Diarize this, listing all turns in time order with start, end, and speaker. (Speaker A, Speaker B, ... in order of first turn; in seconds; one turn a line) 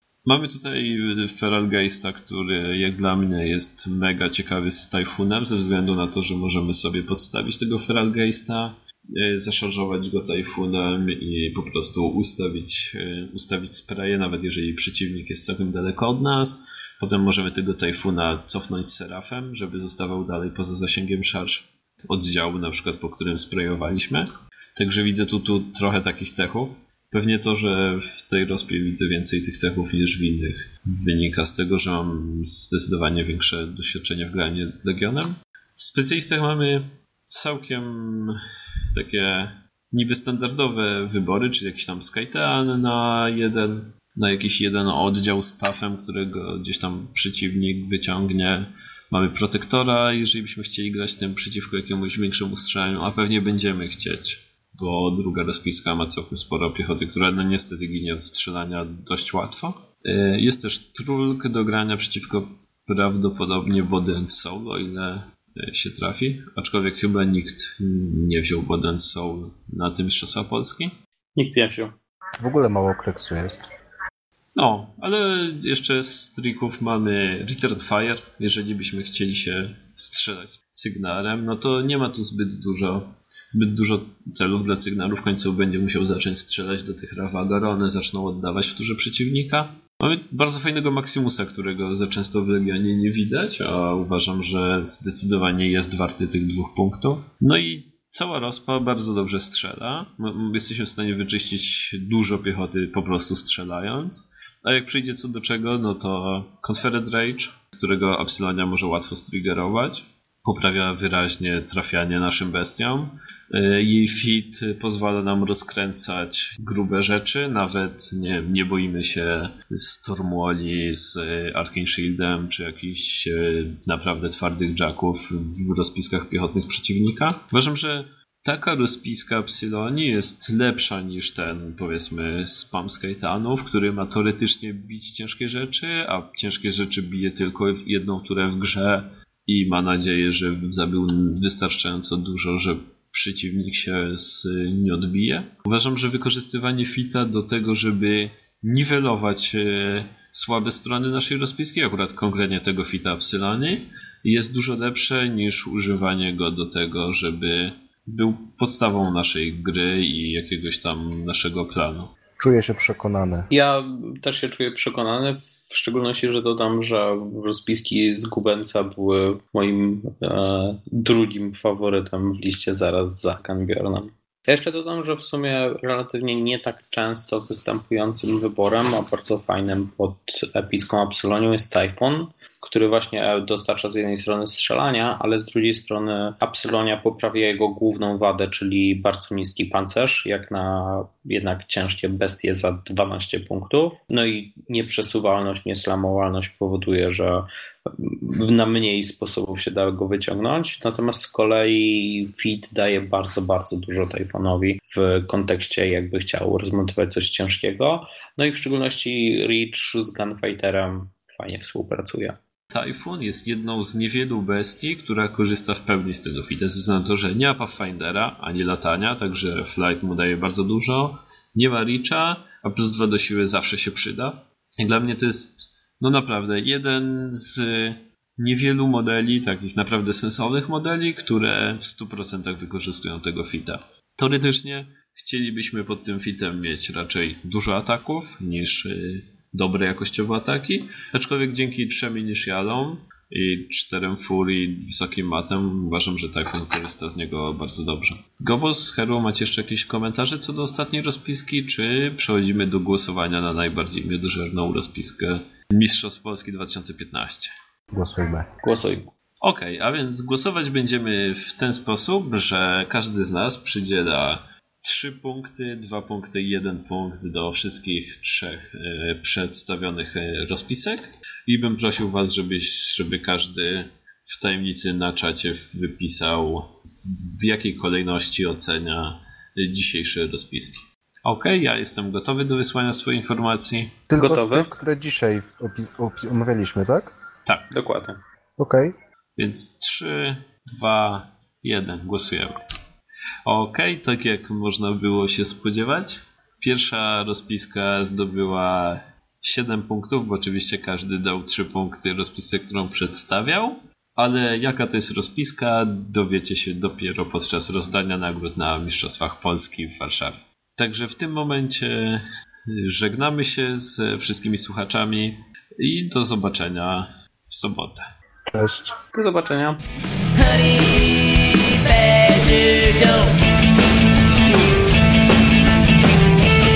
Speaker A: 0.2-38.3
Speaker A: 38.9-70.9
Speaker B: 71.3-71.9
Speaker C: 72.4-73.7
Speaker A: 74.5-162.1
Speaker C: 162.4-163.5
Speaker B: 163.5-212.4
Speaker A: 212.7-257.5
Speaker C: 257.9-258.4
Speaker B: 258.6-259.1
Speaker A: 259.4-283.9
Speaker C: 284.1-287.1
Speaker B: 284.2-284.7
Speaker B: 287.7-288.2
Speaker C: 288.6-288.9
Speaker A: 289.4-292.5
Speaker A: 293.4-312.2
Speaker A: 312.8-318.0
Speaker C: 318.5-318.9
Speaker B: 319.1-319.8
Speaker B: 320.4-323.3